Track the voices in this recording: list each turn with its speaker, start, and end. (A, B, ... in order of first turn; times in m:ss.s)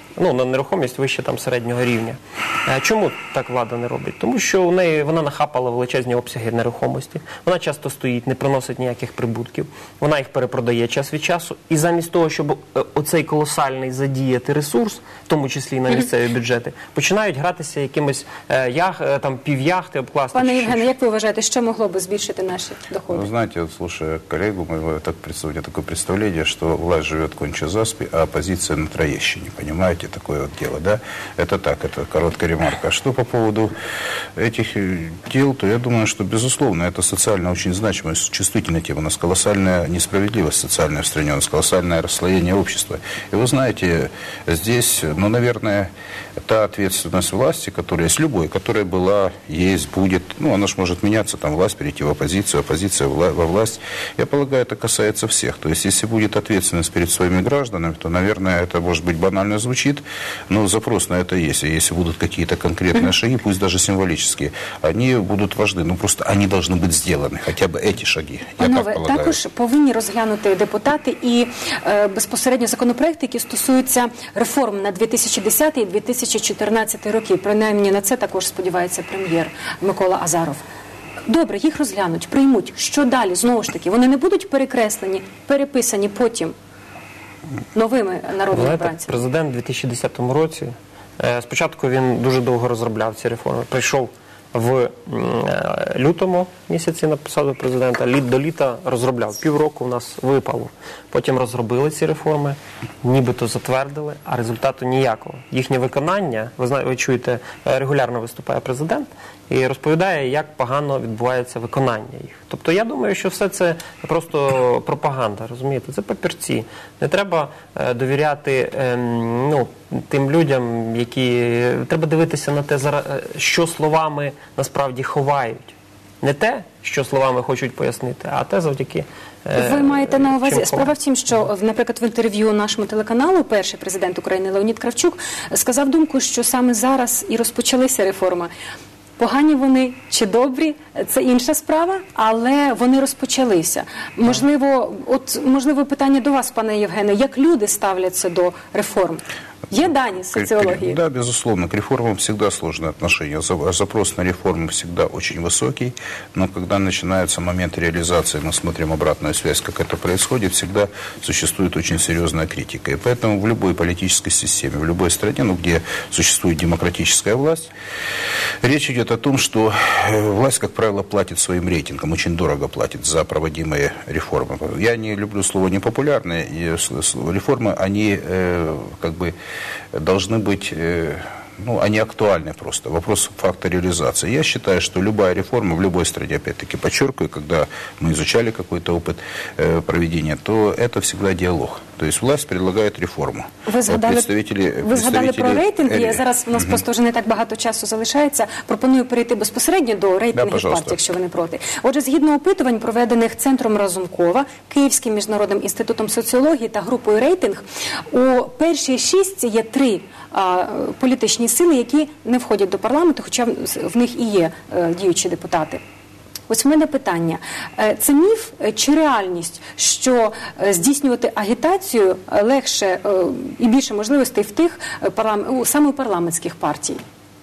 0:00.2-0:20.9 A
0:20.3-0:23.3 B
0:23.1-0:33.7 C
0:34.4-0:45.9 C
0:46.4-1:09.4 C
1:08.6-1:20.6 B
1:21.3-1:26.5 B
1:27.8-1:29.2 B
1:28.5-2:10.9 A
2:09.6-2:18.5 B
2:19.2-2:31.0 B
2:30.3-2:47.7 C
2:48.6-2:59.4 C
2:59.9-3:16.8 C
3:13.7-3:14.3 B
3:14.8-3:35.8 B
3:20.3-3:21.0 C
3:36.5-3:47.0 B